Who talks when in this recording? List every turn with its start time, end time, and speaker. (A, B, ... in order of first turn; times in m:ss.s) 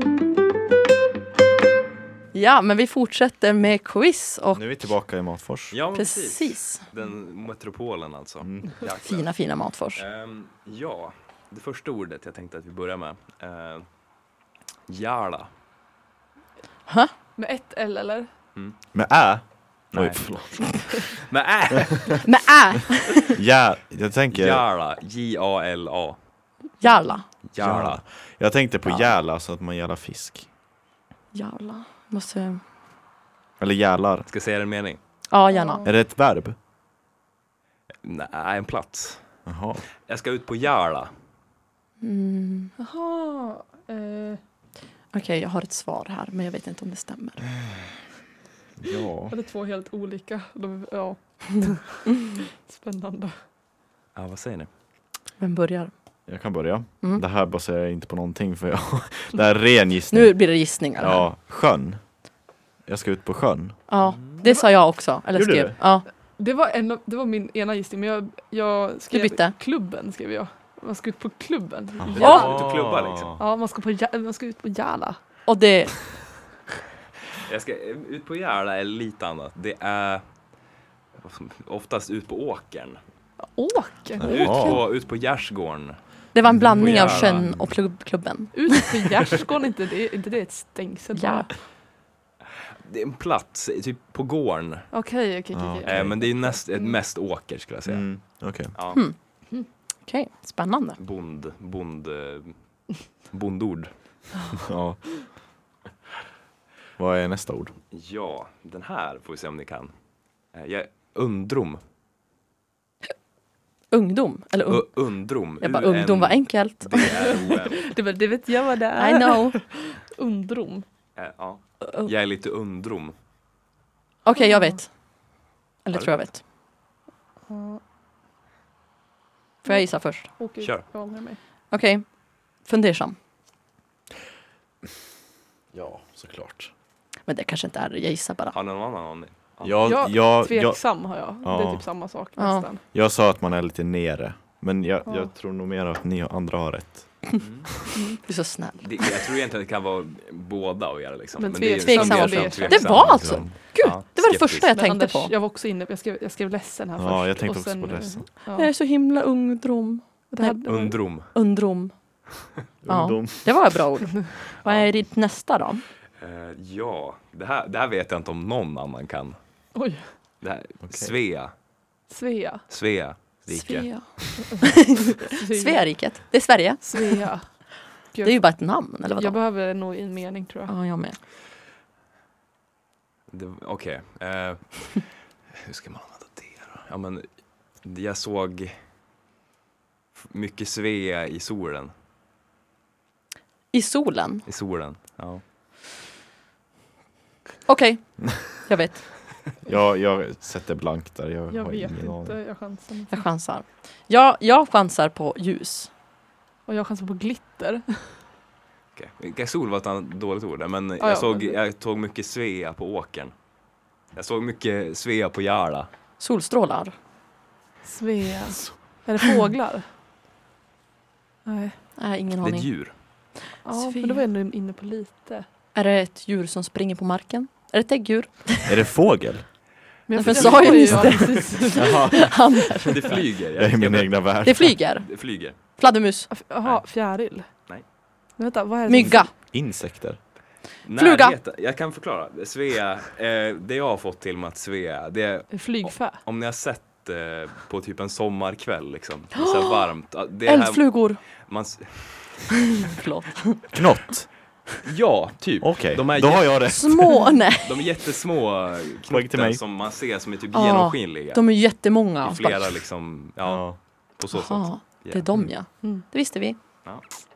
0:02.3-0:04.6 A
0:04.5-0:05.8 B
0:05.7-0:09.3 C
0:05.9-0:06.8 A
0:08.4-0:08.7 B
0:09.0-0:10.0 A
0:10.0-0:13.9 C
0:14.9-0:15.5 C
0:17.4-0:18.3 D
0:18.9-0:21.0 B
0:19.9-0:22.3 C
0:22.2-0:23.4 A
0:23.3-0:24.6 B
0:24.3-0:26.2 C
0:26.8-0:27.3 A
0:27.5-0:28.0 C
0:27.6-0:30.5 B
0:31.3-0:32.6 A
0:33.6-0:34.3 B
0:34.3-0:35.0 C
0:35.3-0:35.8 A
0:35.5-0:35.9 D
0:35.8-0:36.6 B
0:38.0-0:39.2 C
0:39.4-0:39.8 B
0:40.0-0:41.1 C
0:42.0-0:42.7 A
0:42.8-0:44.4 D
0:45.1-0:47.4 A
0:48.8-0:49.3 B
0:49.3-0:53.4 D
0:54.1-0:54.7 C
0:55.4-0:55.9 A
0:56.3-1:02.3 B
1:00.1-1:01.3 A
1:02.8-1:03.8 B
1:03.9-1:06.0 A
1:05.3-1:05.8 B
1:06.4-1:12.6 D
1:09.1-1:09.5 A
1:12.0-1:13.4 B
1:12.1-1:13.3 C
1:12.2-1:12.5 A
1:13.4-1:15.2 D
1:15.4-1:16.0 A
1:17.4-1:20.2 C
1:21.2-1:23.0 C
1:23.4-1:24.8 D
1:24.2-1:24.8 B
1:24.2-1:26.0 C
1:26.3-1:28.8 A
1:26.5-1:27.7 B
1:26.6-1:27.4 C
1:28.5-1:31.6 D
1:31.2-1:31.5 A
1:32.8-1:34.9 C
1:34.9-1:37.0 D
1:35.5-1:36.2 B
1:35.8-1:39.0 C
1:37.9-1:38.7 B
1:40.0-1:41.0 A
1:41.0-1:44.2 C
1:44.7-1:45.0 B
1:47.0-1:47.7 B
1:47.9-1:49.9 C
1:50.5-1:51.8 C
1:53.9-1:57.2 A
1:54.7-1:57.9 C
1:57.4-2:00.8 D
1:59.0-1:59.6 A
2:01.2-2:03.1 C
2:01.8-2:02.1 A
2:04.2-2:04.9 A
2:04.4-2:04.8 D
2:05.8-2:06.4 A
2:05.9-2:06.2 C
2:07.5-2:07.8 D
2:09.6-2:10.3 A
2:09.6-2:11.4 D
2:11.7-2:13.2 A
2:15.7-2:16.7 B
2:17.3-2:18.6 A
2:18.5-2:20.0 C
2:19.6-2:21.9 B
2:19.9-2:22.8 D
2:22.4-2:22.6 A
2:22.9-2:27.4 B
2:25.0-2:25.3 D
2:27.4-2:27.7 C
2:28.3-2:29.1 A
2:28.8-2:34.7 C
2:31.4-2:33.0 D
2:31.8-2:35.3 A
2:32.9-2:33.5 B
2:34.7-2:38.7 D
2:37.0-2:38.3 B
2:38.6-2:41.9 A
2:40.3-2:41.0 D
2:40.6-2:41.3 C
2:42.8-2:43.7 B
2:42.9-2:45.8 A
2:44.6-2:44.9 C
2:46.2-2:49.4 C
2:49.7-2:50.1 D
2:50.4-2:51.5 C
2:50.8-2:51.1 B
2:52.1-2:52.6 D
2:52.7-2:54.4 C
2:53.5-2:57.5 A
2:55.3-2:56.0 D
2:56.8-2:58.5 D
2:58.2-2:59.4 A
2:59.0-3:00.7 D
3:00.7-3:01.2 A
3:03.3-3:08.8 C
3:10.2-3:11.9 C
3:13.7-3:14.4 A
3:14.4-3:15.4 C
3:17.6-3:19.2 A
3:19.6-3:22.4 B
3:21.5-3:23.2 D
3:23.1-3:25.9 A
3:26.6-3:28.2 D
3:29.0-3:33.3 C
3:31.0-3:31.6 D
3:34.0-3:35.9 C
3:36.2-3:36.9 A
3:37.8-3:39.9 D
3:41.4-3:41.8 D
3:42.0-3:42.8 A
3:42.4-3:43.0 C
3:43.6-3:44.2 A
3:43.6-3:45.4 D
3:45.7-3:48.8 A
3:48.6-3:54.8 B
3:50.1-3:52.0 D
3:50.1-3:53.1 A
3:52.9-3:55.6 C
3:54.4-3:56.3 A
3:56.3-3:57.6 D
3:58.3-3:59.3 D
3:58.9-3:59.3 A
3:59.0-4:00.2 B
4:00.8-4:12.7 C
4:01.0-4:01.4 A
4:05.5-4:06.2 D
4:09.3-4:11.2 A
4:12.9-4:13.8 A
4:13.7-4:14.3 B
4:14.8-4:16.9 C
4:15.6-4:17.3 B
4:16.7-4:17.9 A
4:17.6-4:21.4 C
4:19.1-4:19.6 B
4:20.5-4:22.7 A
4:22.2-4:25.5 C
4:23.4-4:23.8 B
4:24.3-4:26.6 A